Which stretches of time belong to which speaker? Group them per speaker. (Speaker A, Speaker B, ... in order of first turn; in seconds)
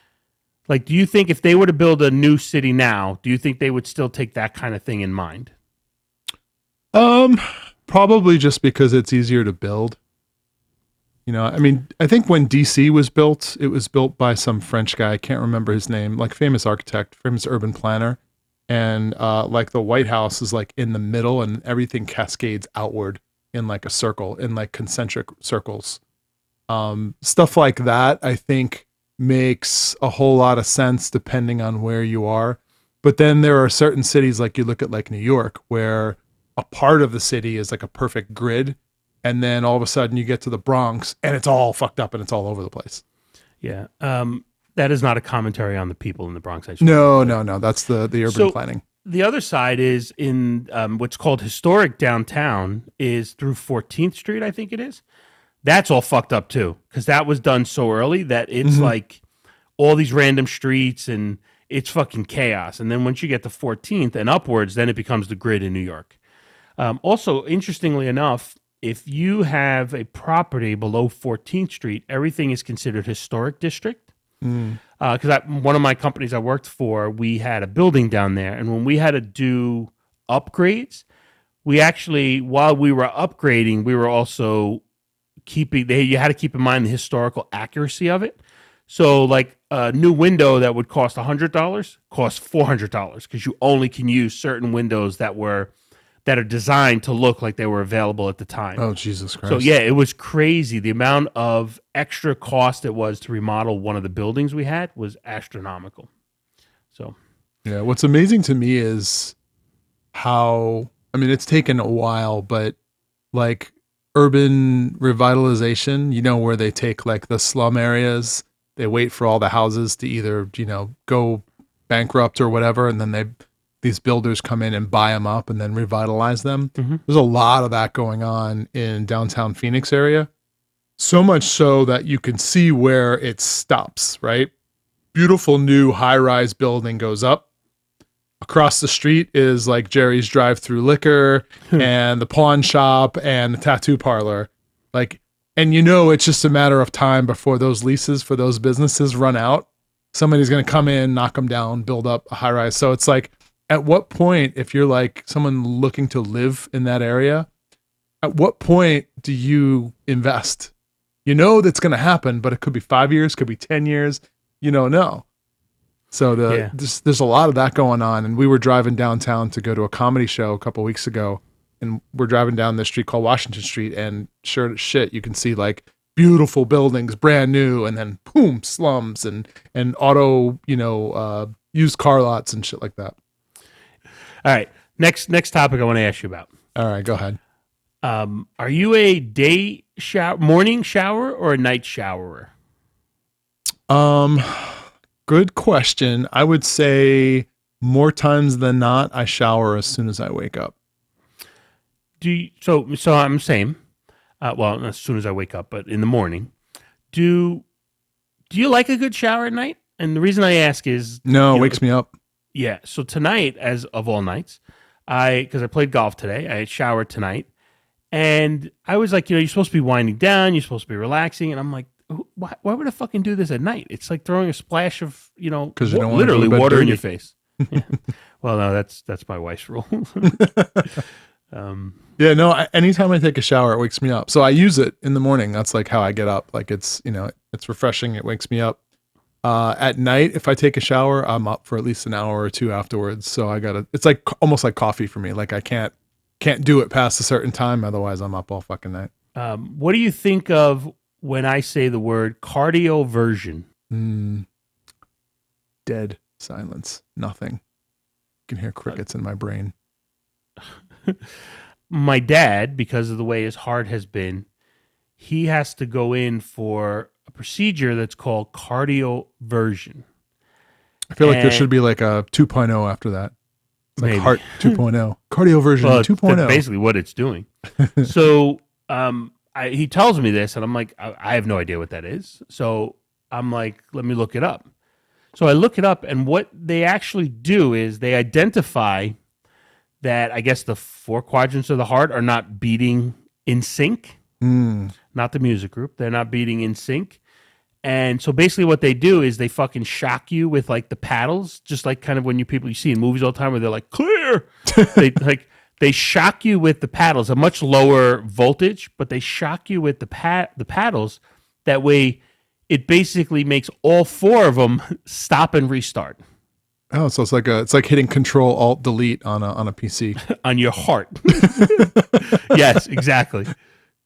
Speaker A: 0.7-5.5, 43.6-47.4, 48.3-55.0, 55.6-59.2, 59.8-66.1, 66.8-74.0, 75.0-81.0, 81.6-84.8, 85.5-88.4, 88.9-95.7, 96.2-98.8, 99.5-106.1, 166.5-166.7, 184.4-186.5, 188.0-192.5, 202.2-203.8, 204.4-206.5, 207.1-207.6, 208.5-211.8, 212.5-217.5, 218.1-231.0, 231.5-232.0, 249.3-253.7, 261.9-264.4, 265.2-270.0, 271.2-271.7, 274.0-274.8, 275.8-277.5, 278.0-284.6, 285.3-289.2, 290.0-294.2, 295.1-297.2, 297.8-316.2, 320.3-323.5
Speaker B: 6.9-10.0, 11.2-26.0, 26.7-43.0, 46.8-48.8, 58.6-58.9, 74.4-74.8, 98.8-99.7, 107.6-109.3, 110.1-112.8, 113.3-130.3, 131.0-134.5, 135.1-137.4, 138.4-157.5, 158.2-160.7, 161.2-165.2, 166.1-183.1, 186.7-187.4, 193.9-200.7, 211.2-212.1, 225.8-227.0, 230.2-230.9, 232.2-238.8, 239.4-249.1, 253.9-254.4, 255.8-257.6, 258.5-259.7, 271.1-273.3, 274.0-276.6, 277.8-278.1, 294.4-294.9, 304.7-305.0, 316.9-320.2, 321.4-322.0